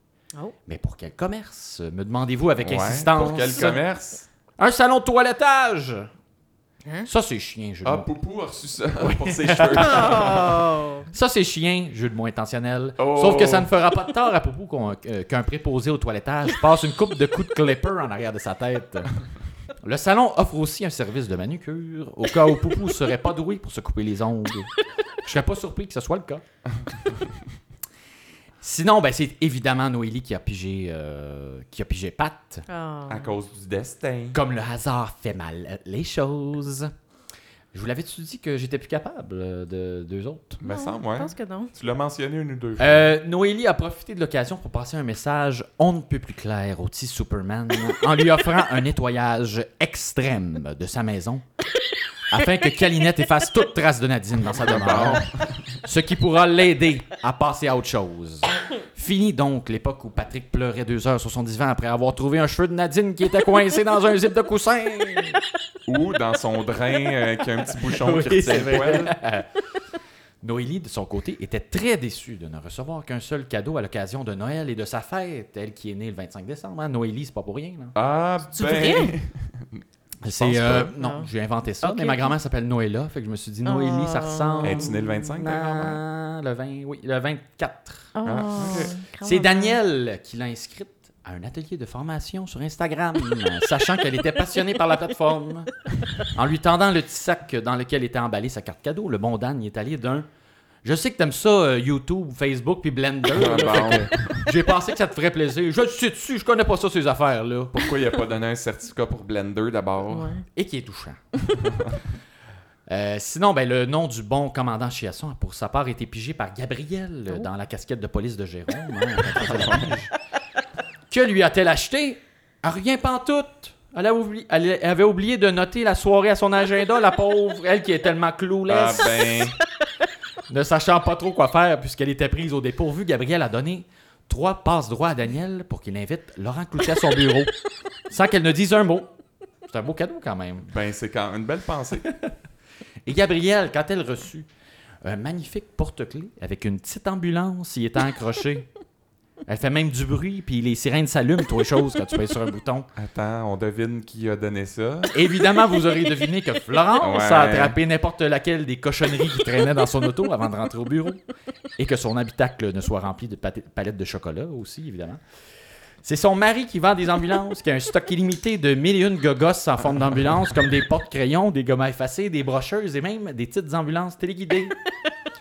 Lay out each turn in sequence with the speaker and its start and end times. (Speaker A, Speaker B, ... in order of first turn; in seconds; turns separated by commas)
Speaker A: 0.7-3.8, Speaker B: 2.6-4.3, Speaker A: 4.6-6.1, Speaker A: 7.0-8.1, Speaker B: 7.8-10.6, Speaker A: 9.0-19.1, Speaker C: 9.8-11.1, Speaker B: 13.0-13.7, Speaker A: 19.8-24.7, Speaker A: 25.2-26.4, Speaker B: 26.9-27.2, Speaker A: 28.6-32.7, Speaker C: 32.7-33.3, Speaker B: 33.1-34.4, Speaker A: 34.3-36.9, Speaker A: 37.7-40.6, Speaker B: 40.6-43.1, Speaker C: 40.6-41.7, Speaker A: 42.8-51.5, Speaker A: 52.3-65.4, Speaker B: 54.5-55.8, Speaker B: 65.9-69.2, Speaker A: 67.7-69.5, Speaker A: 70.4-77.9, Speaker B: 78.0-80.9, Speaker C: 78.6-79.2, Speaker A: 80.2-95.7, Speaker C: 81.0-81.3, Speaker C: 81.8-82.3, Speaker C: 83.7-85.0, Speaker B: 84.6-86.0, Speaker C: 88.2-89.8, Speaker B: 88.2-89.0, Speaker A: 96.3-100.3, Speaker A: 100.8-107.8, Speaker B: 103.3-104.5, Speaker B: 107.7-110.4, Speaker C: 110.1-110.5, Speaker A: 110.5-111.2, Speaker B: 111.6-112.0, Speaker A: 112.9-120.1, Speaker B: 119.4-119.9, Speaker A: 121.1-129.5, Speaker B: 128.7-129.6, Speaker A: 130.5-137.5, Speaker A: 138.1-139.1, Speaker A: 139.7-140.7, Speaker B: 140.7-142.1, Speaker A: 143.1-144.5, Speaker A: 145.0-148.7, Speaker A: 149.5-152.9, Speaker B: 152.9-155.2, Speaker A: 155.1-161.2, Speaker B: 157.0-157.8, Speaker A: 161.8-165.2, Speaker A: 166.0-174.8